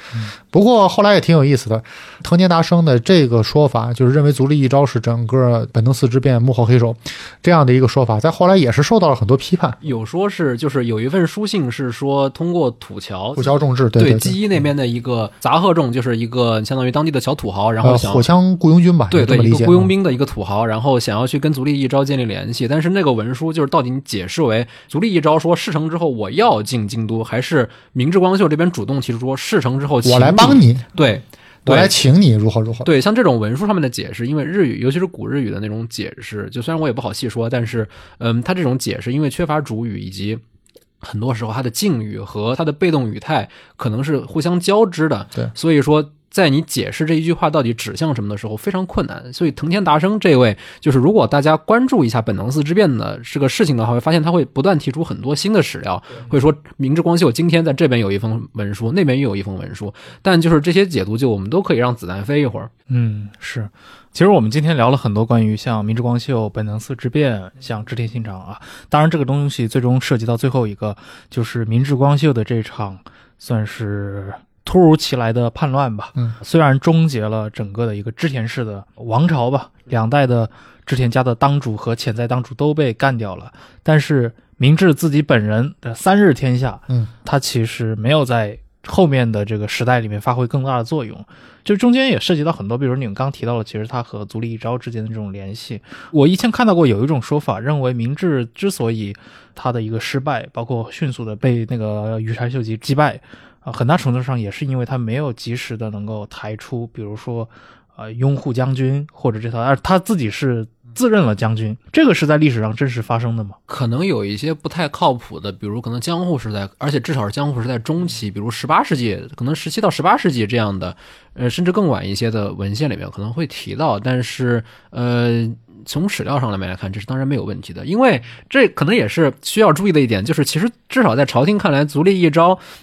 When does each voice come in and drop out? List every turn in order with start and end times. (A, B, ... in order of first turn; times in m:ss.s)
0:00.4-0:09.8 A
0:09.8-0:18.3 B
0:13.4-0:14.4 A
0:17.8-0:19.9 A
0:19.1-0:32.0 B
0:30.0-0:30.8 A
0:31.7-0:32.9 A
0:32.8-0:40.4 B
0:41.0-1:02.7 B
1:02.9-1:53.6 C
1:53.7-2:12.6 B